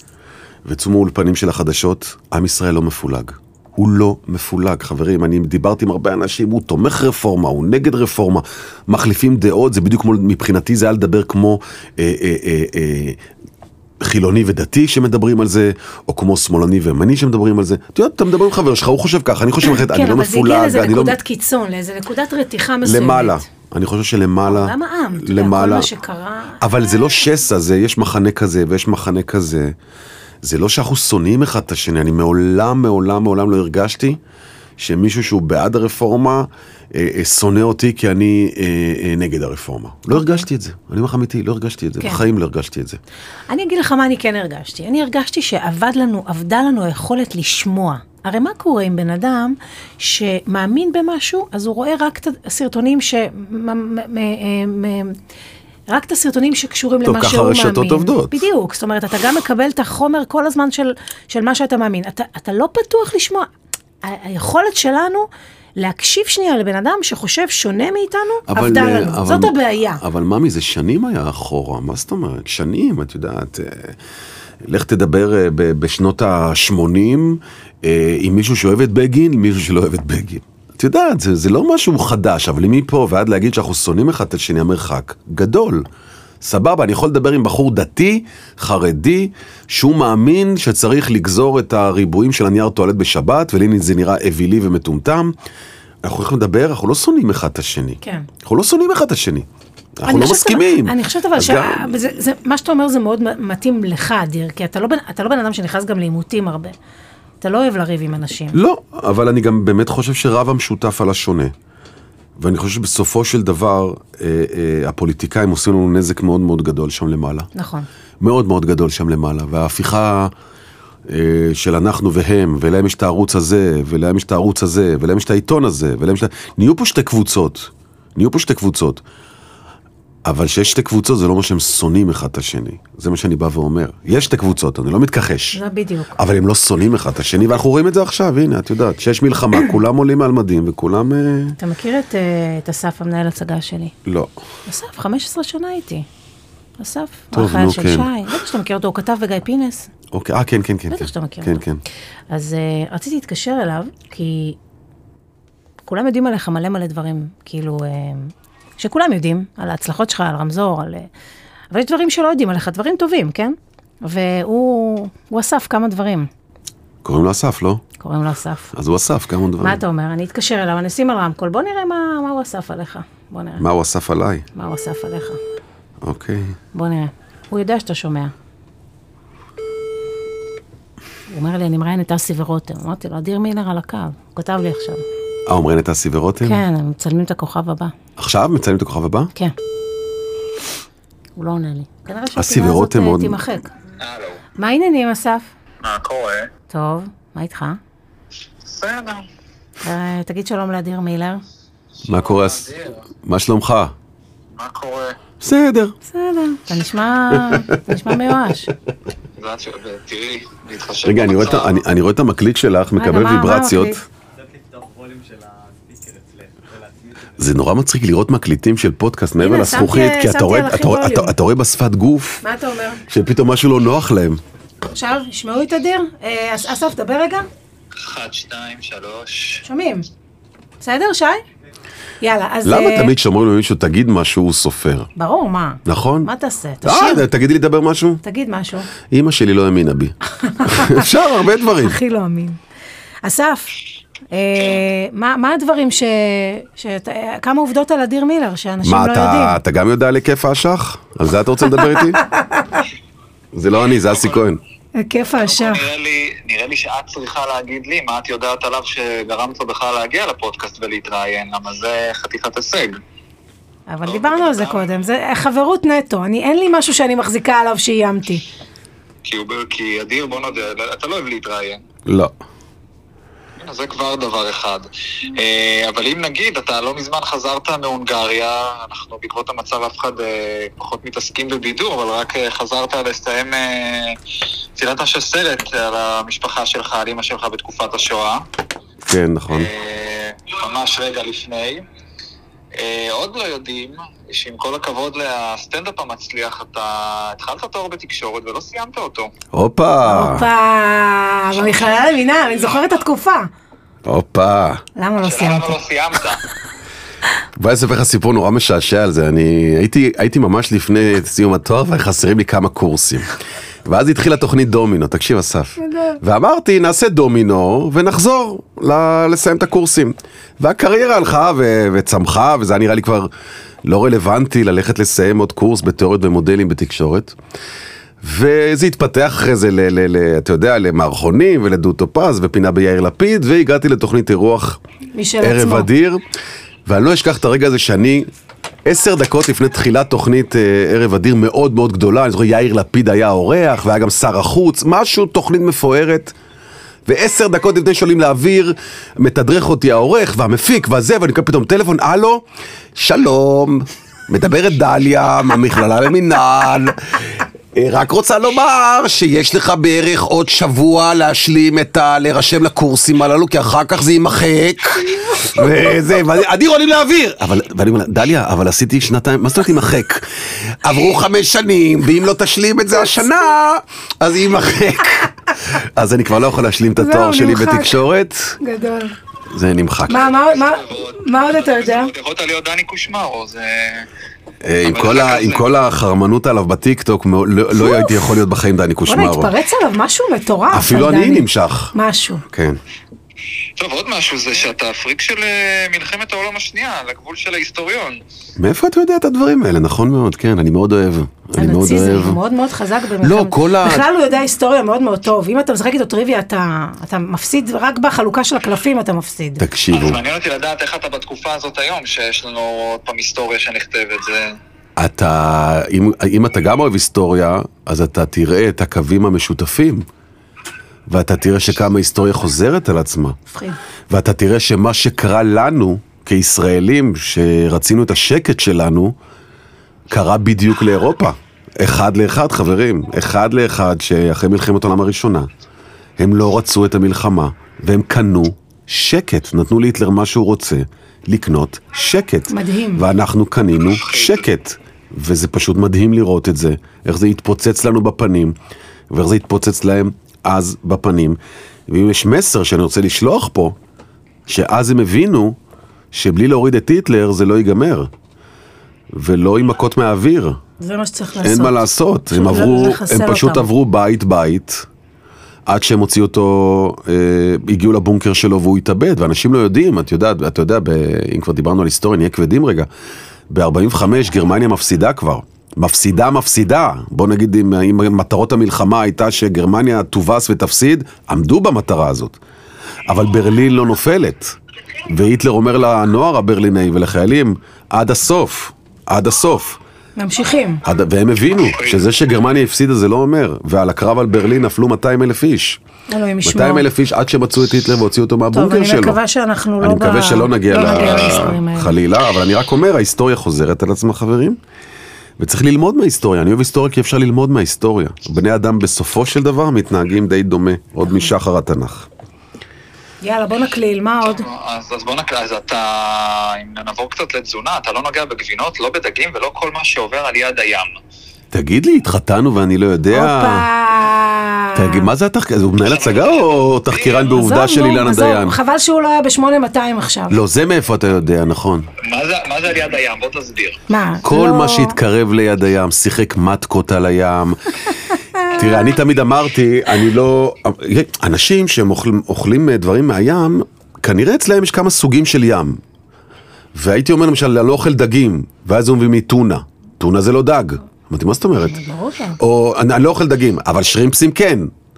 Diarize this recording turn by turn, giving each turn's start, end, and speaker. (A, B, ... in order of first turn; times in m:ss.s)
0:00.6-0:13.2 A
0:14.0-0:21.2 A
0:19.6-0:23.4 B
0:22.8-0:25.9 A
0:24.4-0:26.7 B
0:26.6-0:29.7 A
0:30.4-0:34.2 A
0:34.8-0:43.0 A
0:40.1-0:40.4 B
0:43.5-0:55.2 B
0:55.9-1:03.5 B
0:57.0-0:58.4 A
1:04.0-1:05.3 B
1:05.8-1:10.0 B
1:08.5-1:14.0 A
1:14.6-1:25.8 A
1:26.4-1:35.3 A
1:36.0-1:39.5 A
1:38.0-1:38.3 B
1:40.0-1:42.0 A
1:40.0-1:46.7 B
1:47.4-1:48.6 B
1:48.5-1:51.5 A
1:52.4-1:57.5 A
1:57.5-1:57.9 B
1:58.2-2:00.3 A
2:01.1-2:09.0 A
2:10.2-2:15.6 A
2:15.5-2:16.2 B
2:16.2-2:21.6 A
2:21.6-2:23.9 B
2:24.0-2:24.3 A
2:24.7-2:26.0 B
2:26.8-2:29.9 B
2:27.3-2:28.1 A
2:30.1-2:31.8 A
2:30.9-2:31.6 B
2:32.3-2:34.6 B
2:35.8-2:41.1 B
2:41.7-2:46.3 B
2:47.0-2:47.8 A
2:48.0-2:48.7 B
2:48.7-2:49.8 A
2:49.6-2:53.6 B
2:53.6-2:54.4 A
2:54.5-2:55.4 B
2:56.0-2:56.6 A
2:56.7-2:58.3 B
3:01.3-3:05.0 B
3:05.4-3:06.6 A
3:06.4-3:07.9 B
3:08.2-3:09.3 A
3:11.4-3:13.7 B
3:12.3-3:13.4 A
3:14.0-3:14.4 C
3:14.6-3:15.5 B
3:15.8-3:16.5 C
3:16.7-3:17.8 B
3:18.6-3:19.2 C
3:19.8-3:21.4 B
3:22.0-3:22.7 A
3:22.0-3:23.0 C
3:23.2-3:23.9 A
3:24.5-3:25.2 C
3:25.4-3:25.9 A
3:26.1-3:28.7 B
3:27.3-3:28.3 A
3:29.4-3:31.8 C
3:31.0-3:34.0 A
3:33.0-3:34.0 B
3:34.3-3:37.6 D
3:37.4-3:42.4 A
3:39.4-3:41.3 B
3:42.4-3:43.0 B
3:43.1-3:44.4 A
3:44.9-3:47.5 B
3:48.0-3:49.6 C
3:49.6-3:50.0 B
3:50.8-3:51.4 B
3:52.2-3:53.1 B
3:52.6-3:55.1 A
3:55.2-3:57.2 B
3:55.8-3:56.3 A
3:56.8-3:58.2 A
3:58.2-3:58.9 B
3:59.1-4:02.0 A
4:00.4-4:01.1 B
4:01.8-4:02.6 B
4:03.2-4:03.7 B
4:04.3-4:09.6 B
4:08.8-4:12.2 A
4:11.8-4:12.8 B
4:13.5-4:14.6 A
4:15.0-4:15.8 B
4:15.3-4:23.0 C
4:23.9-4:28.4 B
4:24.1-4:24.8 C
4:29.2-4:31.8 C
4:32.0-4:32.3 A
4:33.6-4:44.2 C
4:44.8-4:48.4 C
4:49.0-4:49.7 A
4:49.5-4:51.8 C
4:52.8-4:59.3 C
4:59.5-5:00.5 A
5:00.0-5:03.5 B
5:04.0-5:04.8 A
5:05.0-5:05.7 B
5:05.2-5:06.4 C
5:07.6-5:23.3 A
5:23.8-5:27.4 A
5:28.2-5:34.8 A
5:35.1-5:35.9 B
5:35.4-5:36.2 A
5:36.8-5:38.3 A
5:38.8-5:46.3 A
5:47.1-6:18.6 A
6:17.0-6:18.0 B
6:18.6-6:19.1 B
6:19.5-6:20.3 A
6:20.1-6:22.1 B
6:20.3-6:24.1 C
6:24.6-6:29.5 A
6:24.8-6:25.6 C
6:27.7-6:28.2 B
6:29.0-6:32.4 B
6:30.7-6:31.9 A
6:32.4-6:32.8 A
6:33.8-6:38.2 C
6:38.6-6:42.4 A
6:41.6-6:49.6 B
6:43.2-6:44.0 A
6:49.6-6:50.2 A
6:49.9-6:54.6 C
6:55.0-7:00.0 A
7:01.1-7:03.4 A
7:03.5-7:03.8 B
7:04.1-7:09.2 A
7:10.1-7:15.5 A
7:16.2-7:28.6 A
7:22.5-7:23.0 B
7:23.9-7:24.4 C
7:29.1-7:33.8 A
7:34.5-7:35.6 A
7:36.1-7:38.1 A
7:39.1-7:40.6 A
7:40.8-7:43.6 B
7:41.4-7:44.9 A
7:45.6-7:52.9 A
7:53.5-8:02.4 A
8:03.0-8:09.8 A
8:10.2-8:10.8 B
8:10.8-8:15.8 A
8:16.1-8:16.8 B
8:16.4-8:19.2 A
8:18.5-8:21.9 B
8:19.8-8:24.6 A
8:25.4-8:32.1 A
8:33.2-8:34.4 B
8:34.2-8:40.9 C
8:41.5-8:43.7 A
8:43.1-8:45.1 B
8:44.7-8:48.6 A
8:45.8-8:47.3 C
8:47.3-8:50.4 B
8:50.3-8:51.9 A
8:52.0-8:53.8 C
8:53.9-8:55.0 B
8:54.2-9:05.8 A
8:58.4-8:58.9 B
9:06.7-9:11.8 A
9:11.7-9:12.4 B
9:12.4-9:14.7 A